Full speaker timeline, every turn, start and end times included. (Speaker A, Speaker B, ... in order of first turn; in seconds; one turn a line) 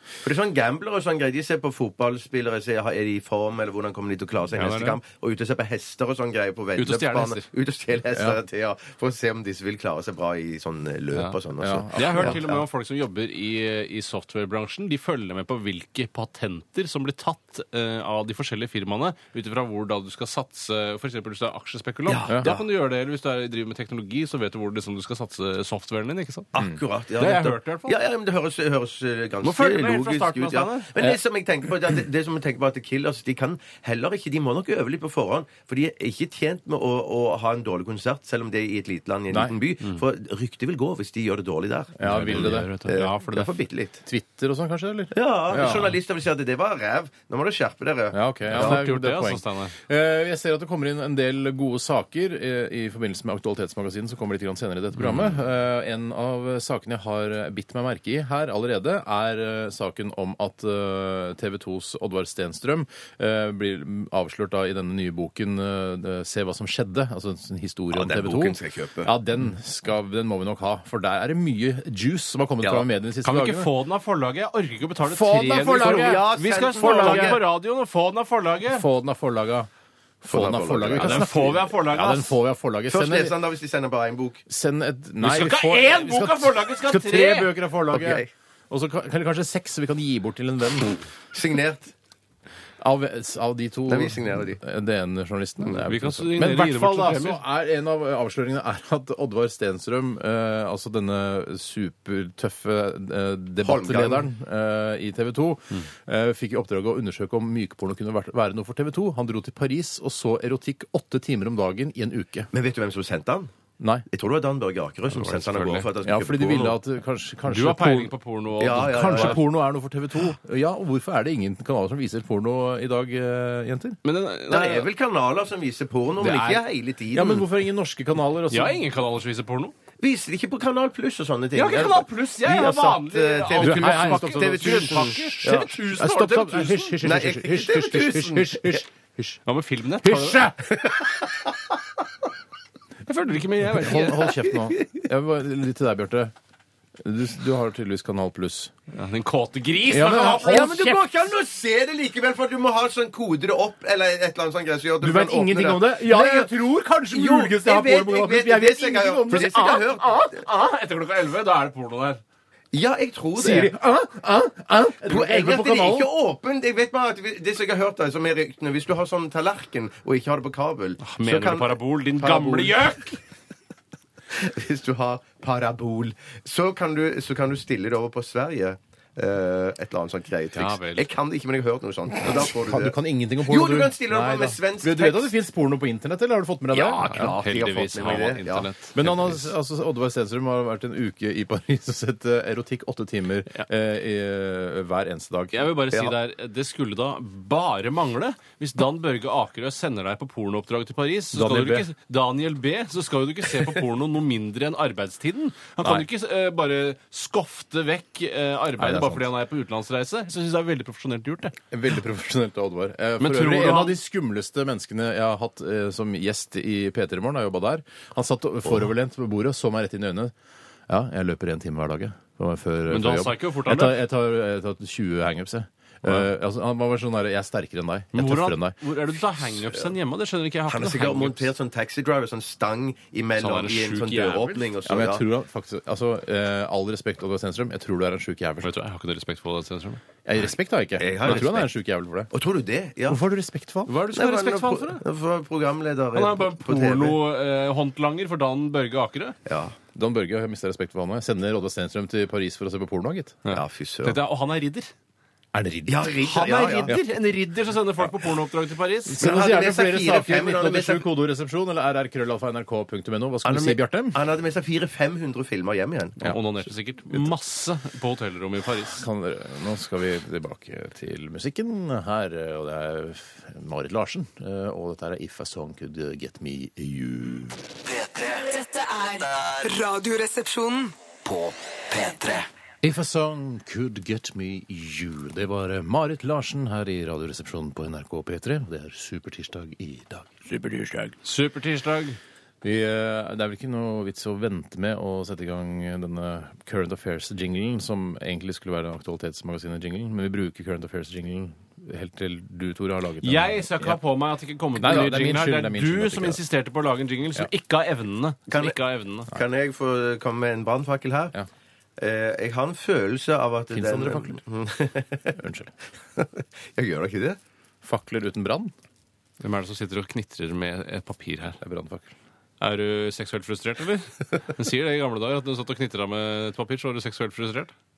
Speaker A: 0.2-12.4
Speaker B: 4.5-5.0
Speaker B: 6.8-7.5
Speaker C: 11.6-12.6
Speaker B: 11.9-26.5
Speaker A: 22.1-22.6
Speaker A: 26.5-44.0
Speaker B: 27.2-28.0
Speaker B: 29.4-30.9
Speaker C: 42.0-42.7
Speaker B: 42.0-43.5
Speaker C: 44.1-46.0
Speaker A: 45.1-48.8
Speaker C: 48.1-73.7
Speaker B: 48.5-49.7
Speaker A: 67.9-69.1
Speaker B: 73.2-78.9
Speaker C: 75.1-76.3
Speaker A: 75.7-77.4
Speaker C: 76.8-77.4
Speaker C: 78.7-79.7
Speaker C: 80.2-83.3
Speaker A: 80.3-81.3
Speaker B: 81.0-82.4
Speaker A: 82.9-84.4
Speaker C: 84.5-91.0
Speaker B: 85.2-87.5
Speaker A: 87.9-88.3
Speaker A: 91.3-91.9
Speaker C: 92.8-112.5
Speaker A: 93.9-94.6
Speaker B: 95.7-97.4
Speaker A: 103.6-104.3
Speaker A: 112.5-113.5
Speaker C: 113.8-114.0
Speaker A: 114.1-116.8
Speaker B: 115.1-115.9
Speaker C: 116.0-118.1
Speaker B: 117.5-119.4
Speaker A: 118.6-119.4
Speaker C: 118.7-124.0
Speaker B: 124.0-124.9
Speaker A: 124.5-127.5
Speaker C: 126.2-128.8
Speaker B: 128.5-129.7
Speaker A: 130.0-135.7
Speaker B: 131.6-137.0
Speaker C: 133.6-139.4
Speaker A: 137.0-138.8
Speaker B: 139.5-140.5
Speaker C: 140.0-140.7
Speaker A: 140.7-141.5
Speaker B: 143.1-144.4
Speaker C: 143.7-146.3
Speaker C: 147.0-148.7
Speaker B: 148.9-150.9
Speaker C: 149.9-151.0
Speaker A: 150.1-156.5
Speaker C: 155.0-159.9
Speaker A: 157.1-160.4
Speaker B: 159.3-162.2
Speaker A: 162.7-163.7
Speaker C: 163.4-166.1
Speaker A: 165.0-172.8
Speaker B: 171.0-173.2
Speaker A: 174.3-185.3
Speaker B: 180.5-181.1
Speaker C: 182.2-187.5
Speaker A: 186.7-188.7
Speaker B: 187.1-189.5
Speaker C: 188.9-195.7
Speaker B: 195.5-211.6
Speaker C: 201.3-201.9
Speaker C: 208.8-209.3
Speaker C: 211.7-220.3
Speaker B: 213.2-214.0
Speaker C: 220.9-228.8
Speaker B: 222.9-224.0
Speaker B: 228.1-231.5
Speaker A: 230.7-235.2
Speaker B: 233.4-234.7
Speaker C: 234.8-238.7
Speaker B: 238.6-240.0
Speaker C: 240.2-242.3
Speaker A: 241.0-241.7
Speaker A: 242.3-243.2
Speaker C: 243.1-243.9
Speaker B: 243.9-245.0
Speaker A: 244.1-247.2
Speaker B: 246.1-249.4
Speaker A: 249.5-249.8
Speaker C: 249.9-253.4
Speaker B: 253.4-254.9
Speaker A: 253.5-254.2
Speaker C: 255.5-256.2
Speaker A: 255.9-257.0
Speaker B: 256.2-259.2
Speaker C: 259.1-264.2
Speaker A: 259.2-261.1
Speaker A: 263.4-266.4
Speaker B: 266.2-269.0
Speaker C: 268.9-277.6
Speaker D: 277.9-278.6
Speaker E: 278.6-280.9
Speaker D: 281.2-282.5
Speaker C: 282.8-291.1
Speaker B: 291.2-292.2
Speaker C: 292.6-304.0
Speaker B: 303.2-309.3
Speaker C: 304.8-306.4
Speaker A: 308.5-308.8
Speaker A: 309.3-311.4
Speaker A: 312.0-315.4
Speaker C: 313.7-314.4
Speaker C: 315.4-315.7
Speaker A: 316.2-317.4
Speaker C: 317.8-318.7
Speaker B: 319.4-321.6
Speaker C: 321.6-322.1
Speaker B: 322.6-327.7